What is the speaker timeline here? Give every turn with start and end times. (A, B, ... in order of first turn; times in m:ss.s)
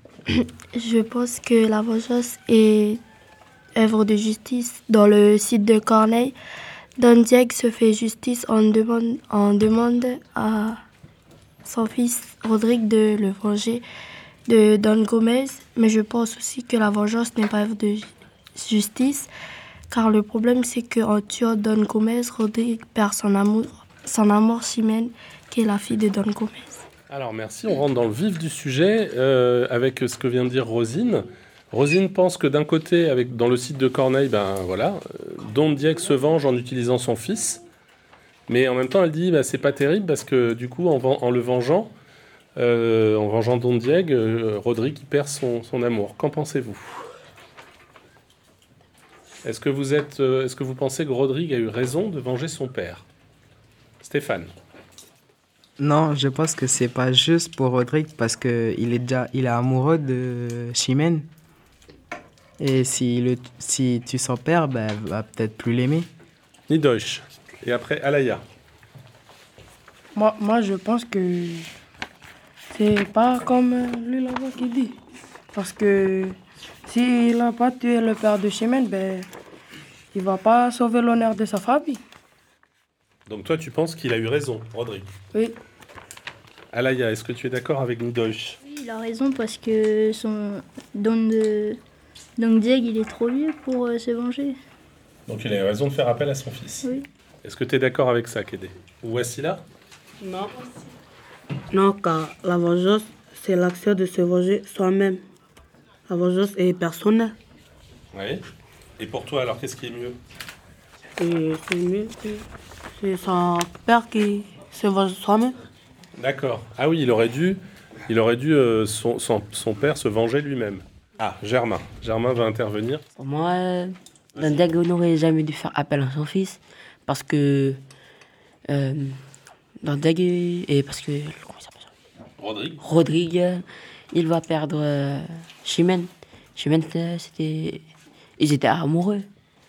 0:00.7-0:03.0 A
0:03.7-0:06.3 A
0:07.0-0:10.8 A
0:11.6-0:13.8 A
0:14.5-0:19.3 A
0:19.9-0:26.8 A
0:27.1-0:37.6 B
0:38.5-0:41.9 B
0:42.6-0:47.0 B
0:49.4-0:53.0 B
0:54.0-0:54.5 B
0:55.8-1:01.3 C
1:02.6-1:06.1 C
1:06.7-1:08.4 B
1:10.1-1:11.7 D
1:12.7-1:15.0 D
1:15.5-1:19.3 D
1:20.1-1:22.0 D
1:23.3-1:25.1 B
1:26.7-1:28.6 B
1:28.6-1:31.8 E
1:32.4-1:34.6 E
1:35.3-1:36.8 B
1:36.8-1:37.1 E
1:37.4-1:39.6 B
1:40.2-1:40.5 F
1:41.7-1:45.2 F
1:46.1-1:47.3 F
1:48.1-1:48.4 B
1:49.0-1:50.2 B
1:51.2-1:52.4 F
1:53.0-1:55.6 F
1:56.2-2:03.0 B
2:03.2-2:07.8 G
2:04.3-2:04.7 B
2:08.7-2:09.2 G
2:09.8-2:11.9 G
2:12.4-2:12.8 B
2:12.8-2:17.8 G
2:18.4-2:19.3 G